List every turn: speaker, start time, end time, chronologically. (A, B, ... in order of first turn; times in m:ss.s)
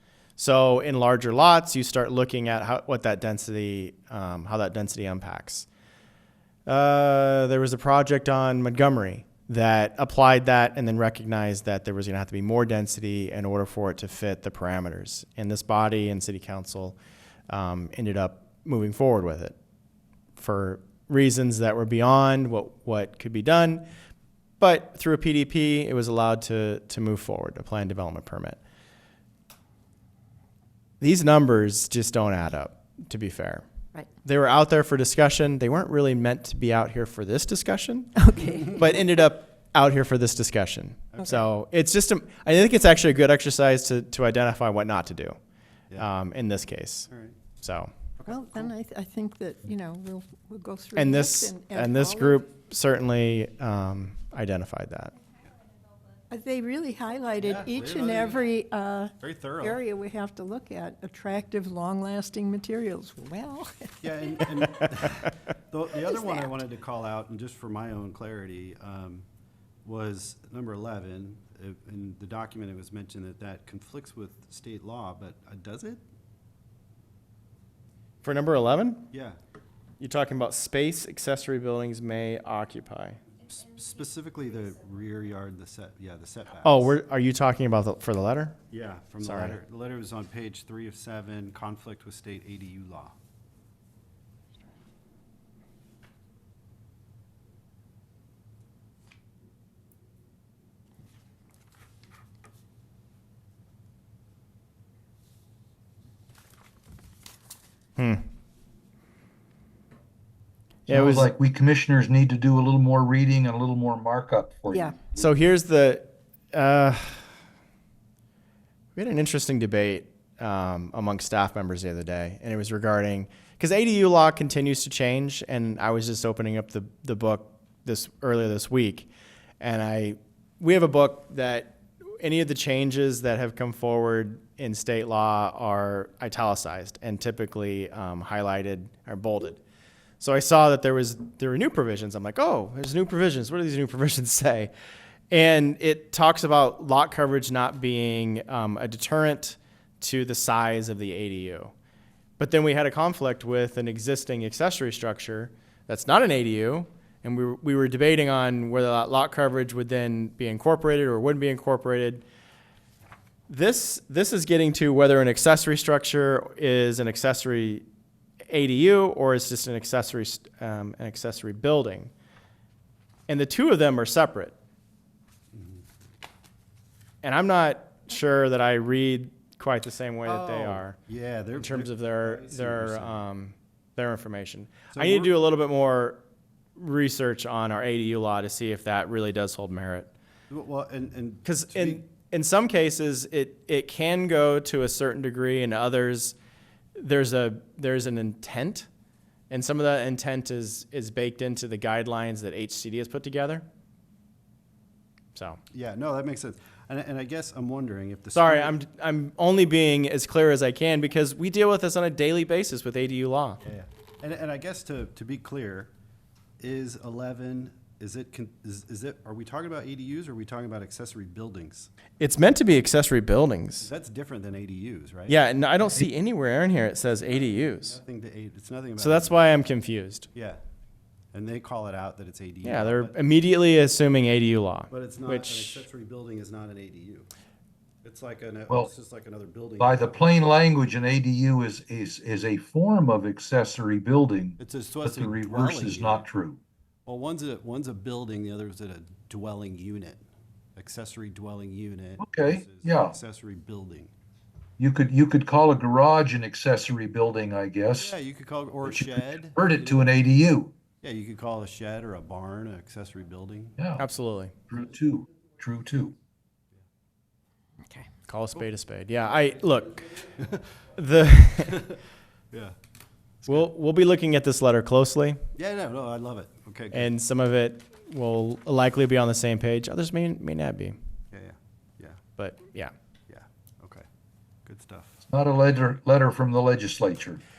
0:00.4-0:05.7 A
0:06.7-0:17.0 A
0:17.5-0:19.5 A
0:20.3-0:23.8 A
0:24.6-0:28.6 A
0:31.0-0:33.6 A
0:34.2-0:45.4 A
0:38.2-0:38.6 B
0:41.1-0:41.4 C
0:46.0-0:47.1 A
0:47.1-0:47.3 C
0:47.6-0:47.9 A
0:48.2-0:48.7 C
0:48.2-0:52.4 B
0:50.9-0:55.1 A
0:56.3-1:04.6 B
0:57.3-0:58.5 C
0:59.2-0:59.8 C
1:04.0-1:09.2 C
1:09.8-1:16.0 C
1:18.2-1:19.1 A
1:19.1-1:19.4 C
1:20.0-1:23.2 A
1:23.4-1:26.9 C
1:26.6-1:28.6 A
1:28.7-1:33.1 C
1:29.2-1:29.6 A
1:48.0-1:48.3 A
1:50.8-1:51.3 A
1:50.9-1:55.2 D
1:54.7-1:55.0 B
1:55.1-1:57.3 A
1:59.0-2:09.1 A
2:09.6-2:19.6 A
2:20.2-2:24.7 A
2:25.3-2:31.7 A
2:32.4-2:42.2 A
2:43.5-2:47.8 A
2:48.5-2:52.1 A
2:53.3-2:54.5 A
2:55.5-2:55.8 C
2:57.2-3:01.0 A
3:00.2-3:03.2 C
3:01.6-3:06.2 A
3:04.9-3:05.3 C
3:06.8-3:10.1 A
3:10.5-3:12.0 C
3:11.4-3:16.4 A
3:17.0-3:18.9 A
3:19.5-3:23.6 A
3:25.3-3:25.6 A
3:25.7-3:28.7 C
3:28.3-3:33.6 A
3:33.6-3:35.9 C
3:36.6-3:41.9 C
3:42.2-3:43.9 A
3:43.8-3:45.4 C
3:45.3-3:48.0 A
3:47.8-3:49.3 C
3:49.0-3:50.3 A
3:50.3-3:50.6 C
3:51.3-3:53.2 C
3:52.6-3:55.8 A
3:54.9-3:57.3 C
3:58.0-4:00.5 C
3:59.8-4:06.6 D
4:04.6-4:06.3 C
4:07.0-4:10.2 C
4:10.8-4:14.1 C
4:12.2-4:13.1 D
4:14.8-4:18.1 D
4:18.0-4:20.2 C
4:18.8-4:20.7 D
4:21.0-4:23.8 C
4:23.8-4:24.0 D
4:24.0-4:24.5 A
4:24.7-4:26.2 D
4:28.2-4:30.3 A
4:30.4-4:30.6 C
4:30.9-4:31.9 A
4:31.6-4:32.0 C
4:33.4-4:33.7 C
4:33.5-4:35.4 A
4:35.6-4:37.1 C
4:36.9-4:41.0 A
4:41.3-4:42.2 C
4:42.4-4:42.9 A
4:43.3-4:44.0 C
4:44.6-4:45.2 C
4:45.3-4:47.4 D